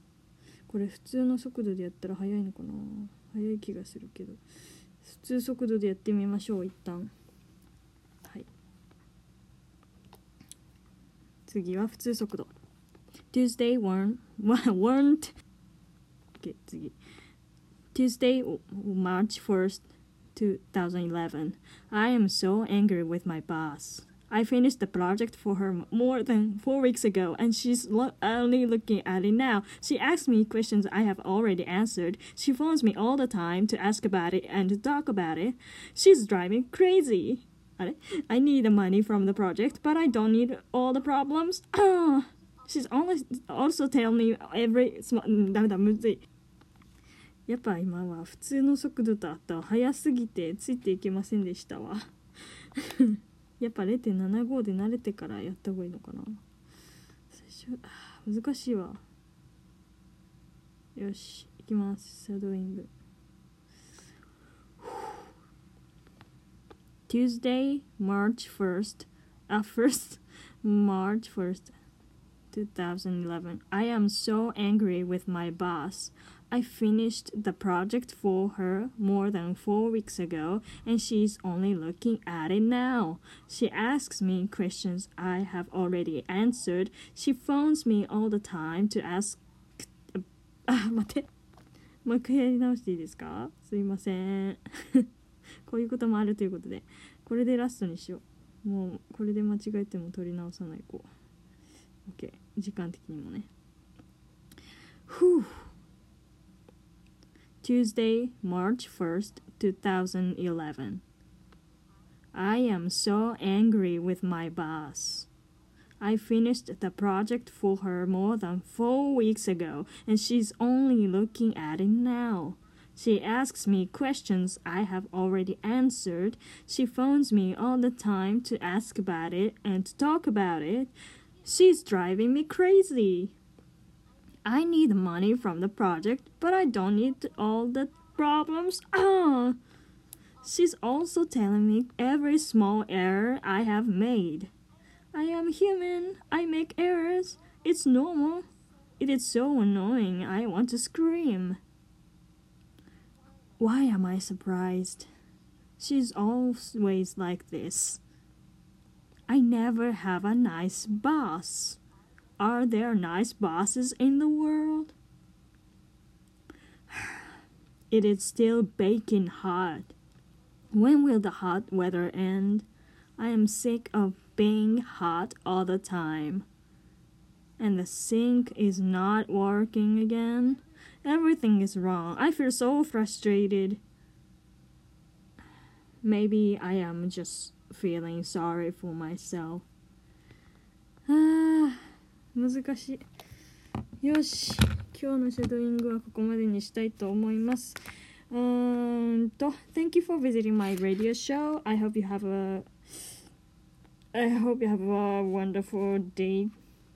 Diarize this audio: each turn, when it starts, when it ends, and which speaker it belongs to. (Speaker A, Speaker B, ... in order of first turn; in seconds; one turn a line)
Speaker A: 0.7-4.4
Speaker A: 5.0-7.1
Speaker A: 11.4-12.5
Speaker A: 13.3-15.3
Speaker A: 16.4-16.9
Speaker A: 17.9-46.2
Speaker A: 47.5-52.1
Speaker A: 52.7-56.4
Speaker A: 57.3-59.0
Speaker A: 61.0-62.9
Speaker A: 67.1-71.7
Speaker A: 72.5-91.3
Speaker A: 92.0-95.0
Speaker A: 95.6-101.1
Speaker A: 102.0-103.5
Speaker A: 105.1-105.7
Speaker A: 107.6-111.0
Speaker A: 112.3-115.3
Speaker A: 116.0-133.3
Speaker A: 134.4-139.6
Speaker A: 140.4-144.5
Speaker A: 145.1-148.4
Speaker A: 149.0-151.6
Speaker A: 153.6-155.1
Speaker A: 155.8-158.0
Speaker A: 159.3-161.8
Speaker A: 162.4-164.9
Speaker A: 166.9-167.2
Speaker A: 167.9-169.9
Speaker A: 170.7-172.7
Speaker A: 173.2-176.4
Speaker A: 177.6-183.8
Speaker A: 186.0-189.7
Speaker A: 191.1-193.0
Speaker A: 194.0-203.1
Speaker A: 204.1-206.5